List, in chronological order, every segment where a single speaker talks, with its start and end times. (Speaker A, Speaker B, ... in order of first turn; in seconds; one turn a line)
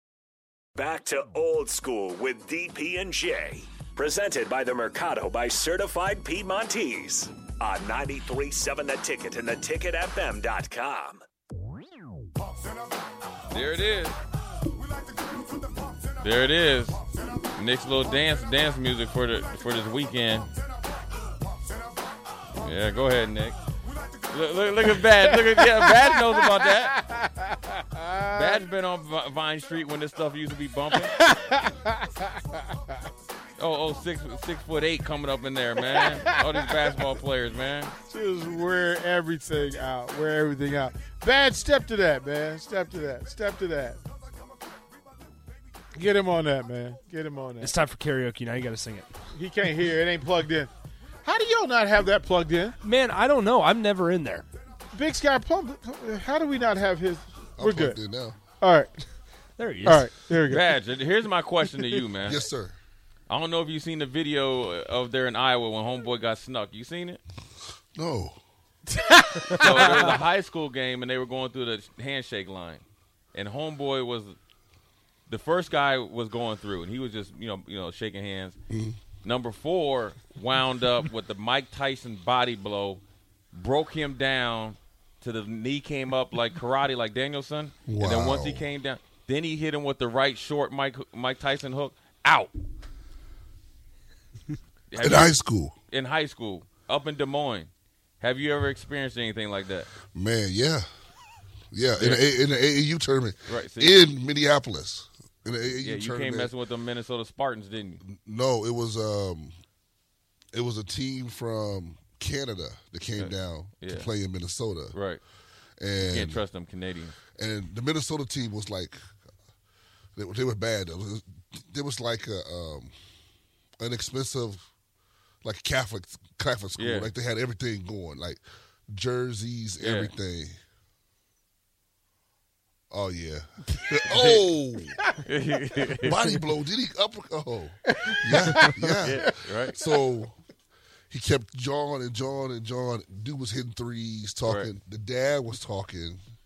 Speaker A: 0.8-11.2
Speaker B: 13.5-14.2
Speaker B: 16.2-17.0
Speaker B: 17.5-20.5
Speaker B: 22.6-23.6
Speaker B: 24.3-27.0
Speaker C: 25.6-25.9
Speaker C: 26.6-28.6
Speaker B: 28.3-31.2
Speaker C: 30.9-32.8
Speaker B: 33.6-37.9
Speaker C: 35.8-36.4
Speaker C: 38.1-44.0
Speaker C: 46.0-47.7
Speaker D: 47.6-49.1
Speaker C: 49.3-50.7
Speaker C: 51.2-52.8
Speaker D: 52.8-54.5
Speaker C: 54.9-58.0
Speaker E: 57.6-58.4
Speaker C: 58.6-59.0
Speaker D: 59.6-60.1
Speaker C: 59.8-60.7
Speaker B: 60.5-62.4
Speaker E: 62.2-62.8
Speaker B: 63.3-67.2
Speaker E: 68.0-68.4
Speaker C: 69.0-70.1
Speaker B: 69.6-74.4
Speaker B: 75.3-78.6
Speaker E: 78.7-79.0
Speaker B: 79.2-83.0
Speaker B: 83.5-92.5
Speaker E: 87.9-88.7
Speaker B: 94.9-99.9
Speaker E: 95.0-95.8
Speaker E: 100.1-100.9
Speaker E: 101.7-106.5
Speaker B: 102.0-102.3
Speaker B: 103.5-104.0
Speaker B: 105.8-108.0
Speaker E: 108.0-109.6
Speaker E: 110.5-115.0
Speaker B: 113.2-114.1
Speaker B: 114.9-115.2
Speaker E: 115.8-116.5
Speaker B: 116.0-117.2
Speaker E: 117.4-119.0
Speaker E: 120.2-122.9
Speaker E: 123.8-124.7
Speaker E: 125.4-130.6
Speaker B: 126.8-127.1
Speaker B: 129.8-130.1
Speaker E: 132.9-135.1
Speaker B: 134.1-134.4
Speaker B: 135.2-136.3
Speaker E: 136.0-140.4
Speaker C: 138.0-138.8
Speaker B: 139.0-139.8
Speaker E: 141.1-146.2